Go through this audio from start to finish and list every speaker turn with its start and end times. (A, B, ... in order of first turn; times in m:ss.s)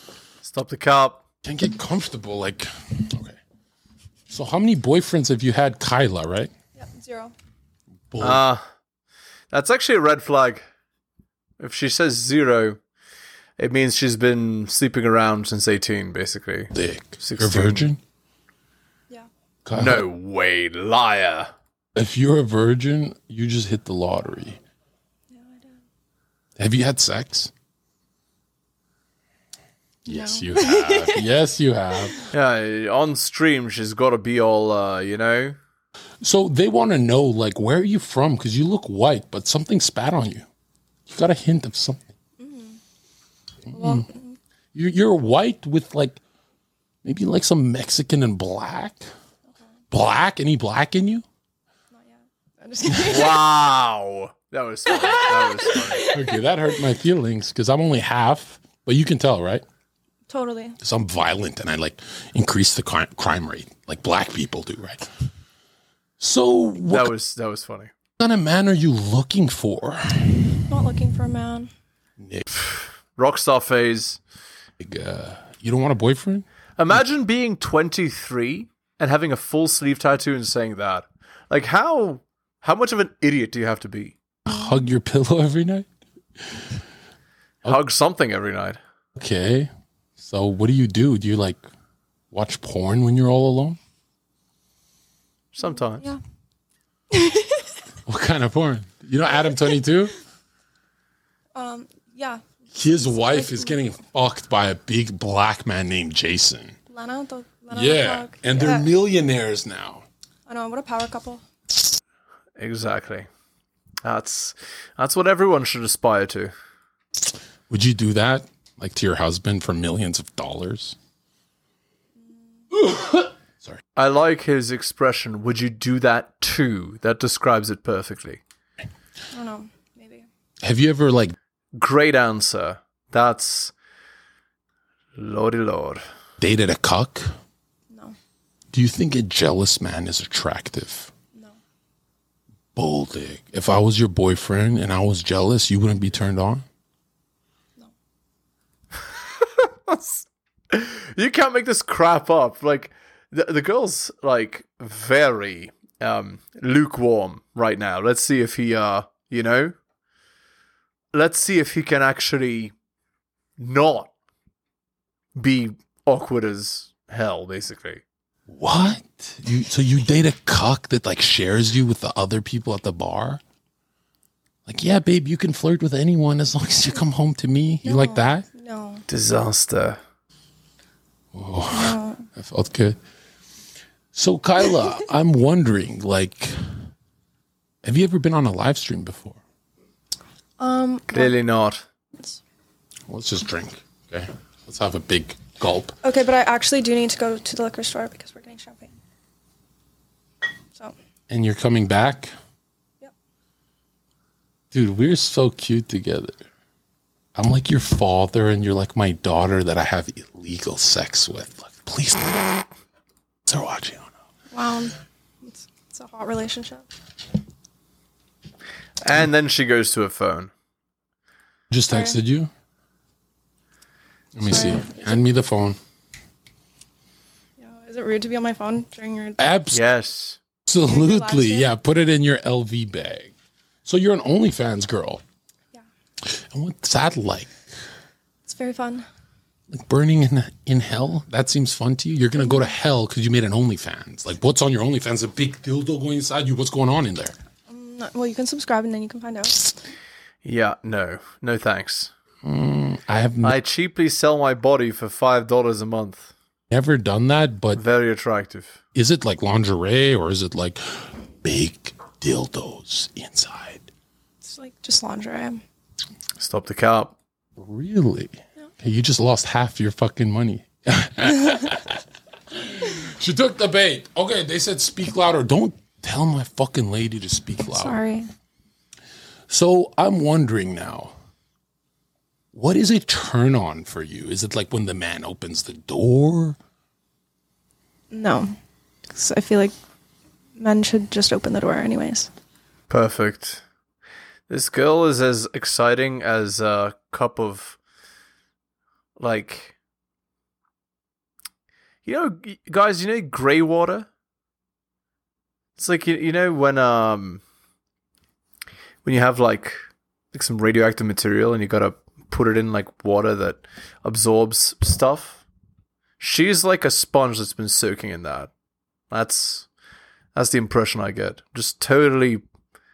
0:00.4-0:01.2 A
0:01.4-0:03.4 B
0:04.3-0:06.5 B
0:06.8-0:07.3 C
0:08.1-0:08.4 B
0:08.2-0:08.6 A
0:09.5-0:10.6 A
0:11.6-0:12.8 A
0:13.6-0:17.9 A
0:16.7-0:18.0 B
0:19.6-0:20.1 B
0:19.7-0:21.5 A
0:22.0-0:24.6 B
0:25.3-0:25.8 C
0:26.6-0:27.5 B
0:30.1-0:31.2 C
0:30.1-0:32.2 B
0:32.3-0:35.6 A
0:36.2-0:40.4 B
0:41.1-0:42.0 B
0:42.4-0:42.8 C
0:43.7-0:44.1 B
0:43.7-0:44.4 C
0:44.7-0:46.2 B
0:47.0-0:49.1 B
0:49.9-0:51.2 B
0:51.9-0:53.4 C
0:53.0-0:56.1 A
0:56.1-0:59.6 B
1:00.3-1:00.8 C
1:00.8-1:05.1 B
1:06.2-1:07.1 B
1:06.9-1:07.9 A
1:08.2-1:10.4 B
1:10.7-1:11.7 C
1:12.2-1:12.5 B
1:12.8-1:14.2 A
1:14.8-1:16.5 B
1:16.8-1:24.2 A
1:24.5-1:25.9 B
1:27.7-1:28.8 A
1:29.2-1:31.6 B
1:32.3-1:33.8 B
1:35.6-1:36.1 A
1:37.1-1:37.6 C
1:38.1-1:40.1 B
1:41.6-1:42.4 C
1:42.7-1:46.8 B
1:43.2-1:43.8 C
1:46.9-1:48.9 C
1:47.7-1:50.1 B
1:50.5-1:51.4 C
1:52.6-1:53.3 A
1:54.0-1:56.5 A
1:57.7-2:01.0 B
2:02.2-2:02.6 C
2:02.7-2:03.8 B
2:04.0-2:08.4 A
2:09.3-2:10.3 C
2:10.6-2:11.4 B
2:11.8-2:13.7 A
2:15.2-2:16.0 A
2:16.4-2:17.3 B
2:17.9-2:18.2 C
2:18.7-2:21.1 B
2:22.8-2:26.6 B
2:29.4-2:39.8 A
2:41.1-2:42.7 A
2:43.6-2:44.1 A
2:45.4-2:48.0 A
2:48.5-2:53.4 B
2:54.7-2:58.4 B
2:57.8-2:59.0 C
2:59.1-3:00.0 A
3:01.3-3:03.0 B
3:01.7-3:02.2 C
3:04.1-3:06.6 B
3:07.8-3:09.4 B
3:10.6-3:11.3 C
3:11.1-3:11.8 A
3:13.1-3:16.0 B
3:16.0-3:18.9 C
3:21.3-3:22.3 B
3:24.7-3:26.4 B
3:27.4-3:32.7 B
3:33.5-3:34.1 B
3:34.5-3:36.9 C
3:39.0-3:40.5 A
3:41.7-3:42.5 B
3:41.9-3:42.2 C
3:44.4-3:45.8 B
3:44.5-3:45.2 C
3:47.6-3:49.4 C
3:49.4-3:49.8 B
3:49.7-3:50.4 A
3:50.7-3:53.3 B
3:50.9-3:51.7 C
3:53.8-3:55.2 B
3:56.2-3:57.5 B
3:58.4-3:59.0 C
3:59.7-4:07.4 B
4:07.7-4:09.7 C
4:10.4-4:12.1 A
4:12.4-4:13.6 B
4:13.4-4:16.3 A
4:16.7-4:17.8 B
4:17.8-4:18.8 A
4:19.0-4:23.9 B
4:24.4-4:25.6 C
4:26.4-4:27.1 A
4:27.6-4:32.0 B
4:32.5-4:38.0 B
4:37.7-4:38.3 C
4:39.5-4:41.1 B
4:42.5-4:46.6 B
4:48.1-4:48.6 C
4:49.1-4:49.7 C
4:50.6-4:52.3 C
4:52.9-4:53.6 A
4:54.5-4:57.8 A
4:59.2-4:59.8 A
5:02.0-5:04.1 A
5:05.8-5:07.4 A
5:09.0-5:09.8 A
5:10.3-5:15.4 A
5:16.2-5:18.5 A
5:19.1-5:19.7 A
5:20.4-5:22.4 A